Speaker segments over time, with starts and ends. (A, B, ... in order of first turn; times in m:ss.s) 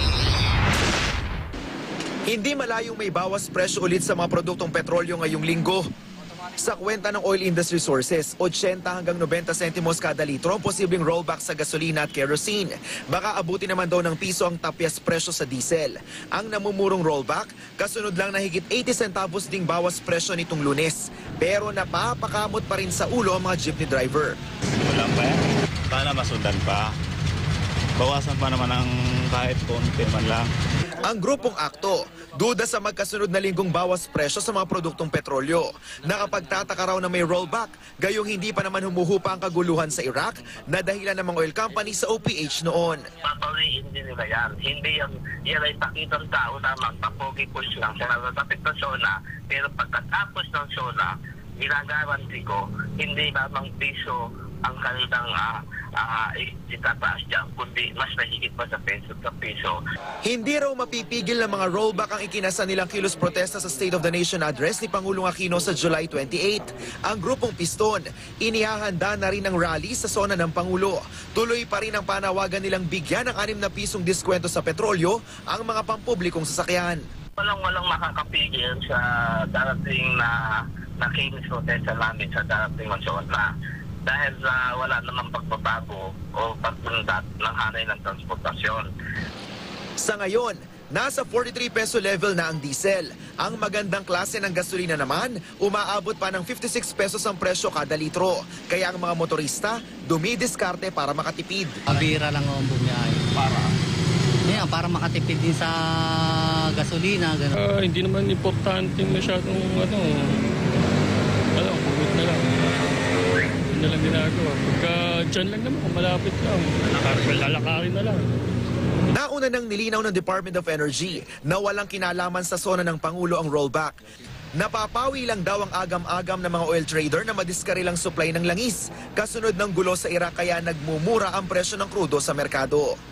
0:02.3-0:05.9 A
0:06.6-0:24.4 A
0:24.8-0:27.0 B
0:28.0-0:30.5 B
0:31.0-0:43.0 A
0:43.2-0:59.8 C
1:00.2-1:17.0 A
1:17.4-1:23.5 C
1:24.0-1:28.9 C
1:30.0-1:41.8 A
1:41.9-1:43.6 D
1:44.4-1:47.5 D
1:47.6-1:50.4 E
1:51.6-1:52.5 E
1:53.7-1:58.3 E
1:59.1-2:04.0 A
2:04.6-2:12.9 A